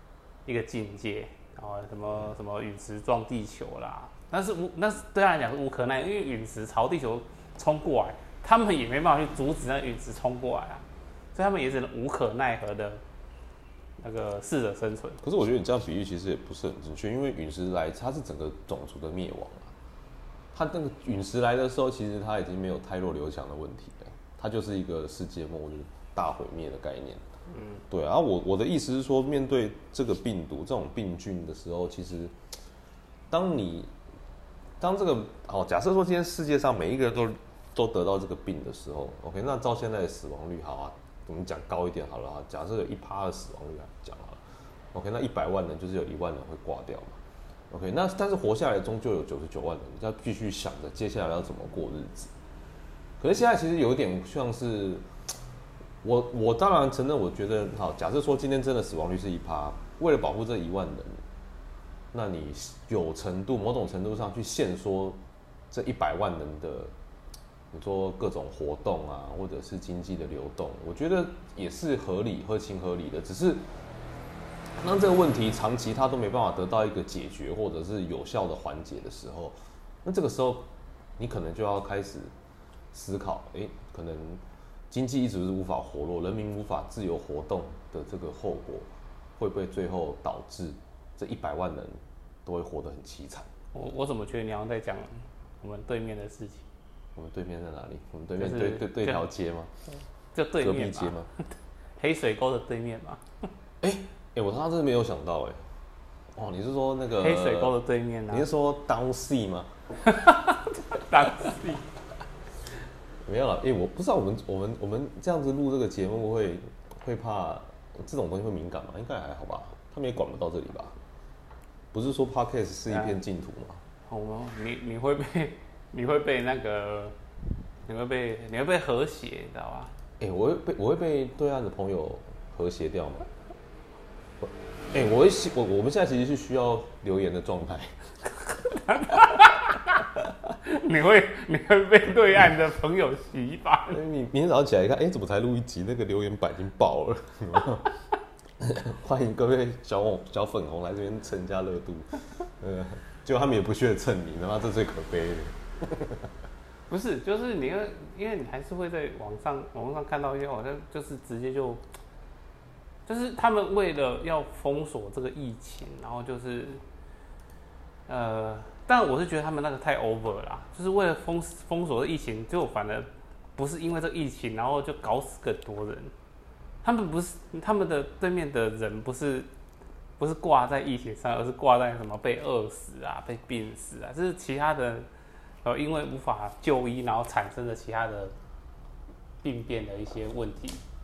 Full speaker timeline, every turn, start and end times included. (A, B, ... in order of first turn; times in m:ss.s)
0:00.4-0:13.0 A
0:14.0-0:15.2 A
0:15.2-0:19.7 B
0:20.5-0:27.2 B
0:27.5-0:27.8 A
0:27.9-0:32.3 B
0:33.3-0:33.9 B
0:34.8-0:44.4 B
0:44.9-0:47.2 B
0:47.7-0:52.3 B
0:53.2-0:55.0 B
0:56.0-1:01.2 B
1:02.1-1:05.2 B
1:05.7-1:06.9 B
1:07.7-1:13.6 B
1:14.8-1:22.3 B
1:22.9-1:33.5 B
1:33.7-1:36.7 A
1:37.1-1:39.7 B
1:38.4-1:39.2 A
1:39.9-1:41.4 A
1:40.6-1:41.3 B
1:42.0-1:43.2 A
1:43.8-1:45.7 B
1:46.4-1:47.8 B
1:47.2-1:48.5 A
1:48.3-1:49.7 B
1:50.0-1:51.9 A
1:53.2-2:01.0 B
2:01.9-2:03.8 B
2:02.9-2:03.2 A
2:04.1-2:07.2 A
2:07.9-2:09.9 A
2:10.2-2:13.3 B
2:14.4-2:18.1 B
2:18.9-2:20.0 A
2:20.6-2:24.0 A
2:23.9-2:27.9 B
2:28.6-2:36.3 B
2:36.9-2:41.8 A
2:43.1-2:46.8 A
2:48.1-2:56.1 A
2:56.8-2:59.5 A
3:00.2-3:05.1 A
3:05.6-3:08.4 A
3:09.4-3:10.8 A